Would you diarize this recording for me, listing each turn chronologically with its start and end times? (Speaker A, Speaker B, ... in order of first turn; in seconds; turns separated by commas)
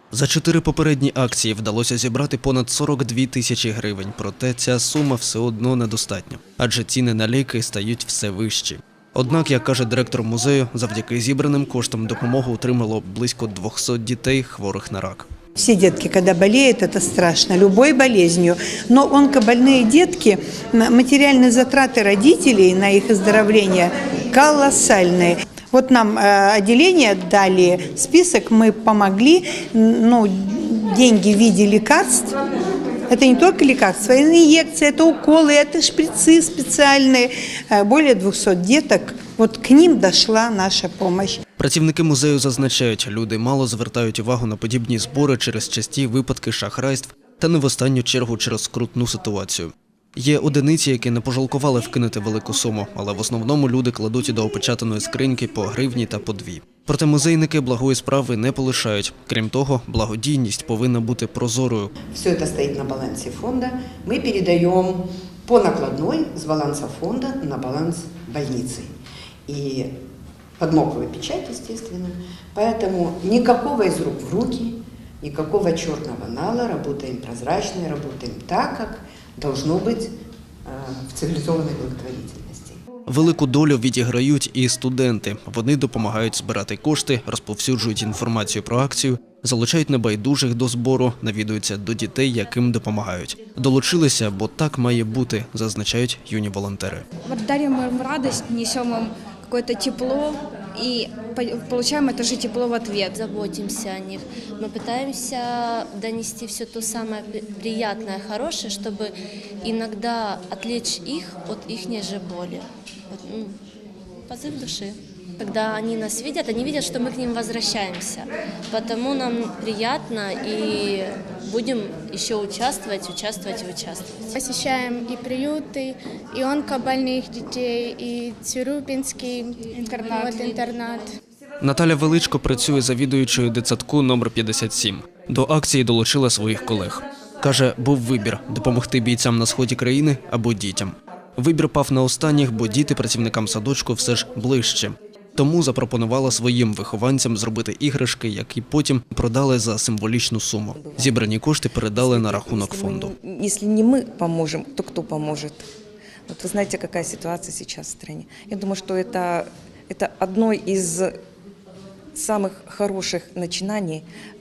Speaker A: 0.1-15.3, Speaker B: 15.6-32.3, Speaker B: 33.1-41.4, Speaker A: 41.6-61.9, Speaker C: 62.1-68.9, Speaker C: 69.5-69.9, Speaker C: 70.6-80.1, Speaker C: 80.7-82.8, Speaker A: 83.1-97.0, Speaker D: 97.2-103.2, Speaker E: 103.1-113.5, Speaker E: 114.3-124.3, Speaker F: 124.4-129.6, Speaker D: 129.7-130.6, Speaker E: 130.1-130.6, Speaker F: 130.2-131.0, Speaker A: 131.6-153.1, Speaker G: 150.7-151.3, Speaker G: 151.9-155.7, Speaker G: 156.3-161.1, Speaker G: 162.1-164.1